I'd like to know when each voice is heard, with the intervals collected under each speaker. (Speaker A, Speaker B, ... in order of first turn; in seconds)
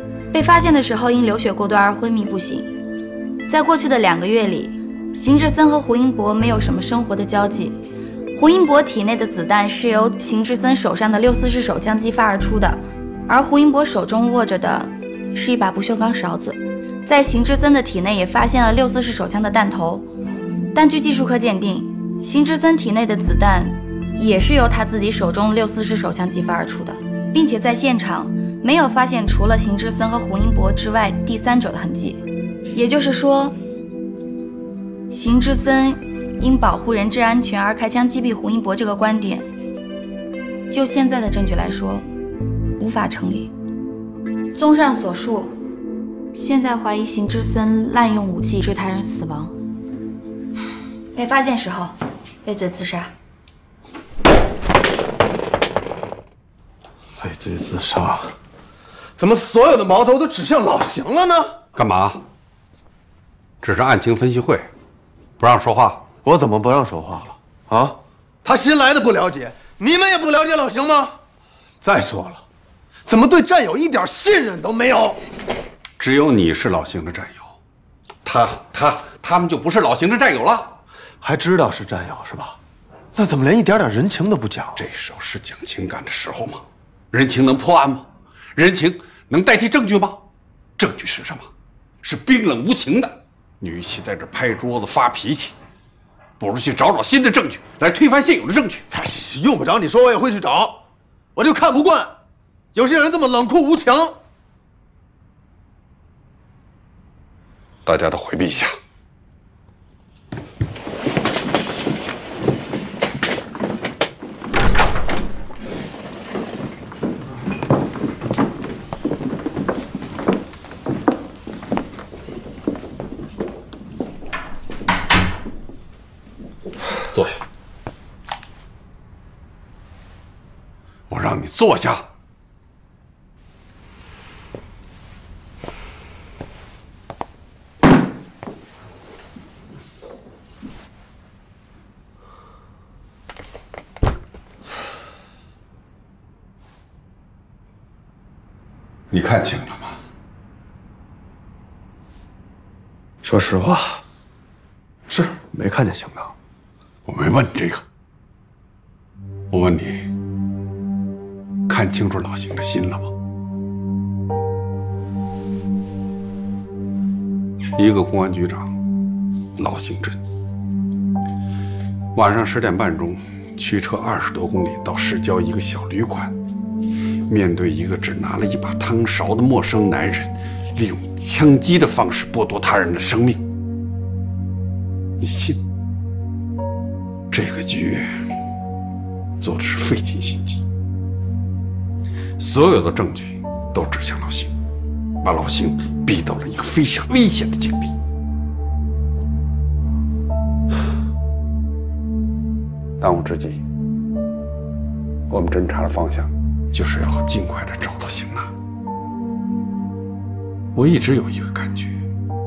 Speaker A: 0.3-2.7, 3.5-7.8, 8.3-20.1, 20.7-33.6, 35.1-39.5, 40.7-42.1, 42.8-43.5, 44.5-45.5, 46.3-49.5, 51.1-53.1
Speaker B: 57.2-58.3, 59.2-61.6, 66.2-71.1, 71.8-72.4, 73.1-75.2, 81.2-82.6, 83.2-84.8, 98.9-100.8, 101.4-102.1, 102.8-104.1, 153.2-154.0, 155.1-156.3
Speaker C: 61.8-62.2, 63.6-64.7, 65.4-66.1, 76.0-77.5, 78.2-80.8, 84.8-90.2, 90.8-91.5, 92.0-95.6, 96.4-98.9, 107.8-108.8, 131.1-132.1, 149.1-150.0, 157.1-157.8, 159.5-160.1, 161.7-163.1, 167.8-168.7, 169.6-170.2, 172.1-176.3, 177.3-183.5, 185.2-185.6, 187.3-188.1, 189.4-190.6, 192.4-194.6, 195.2-197.9, 203.0-203.6, 205.3-208.5, 210.8-212.0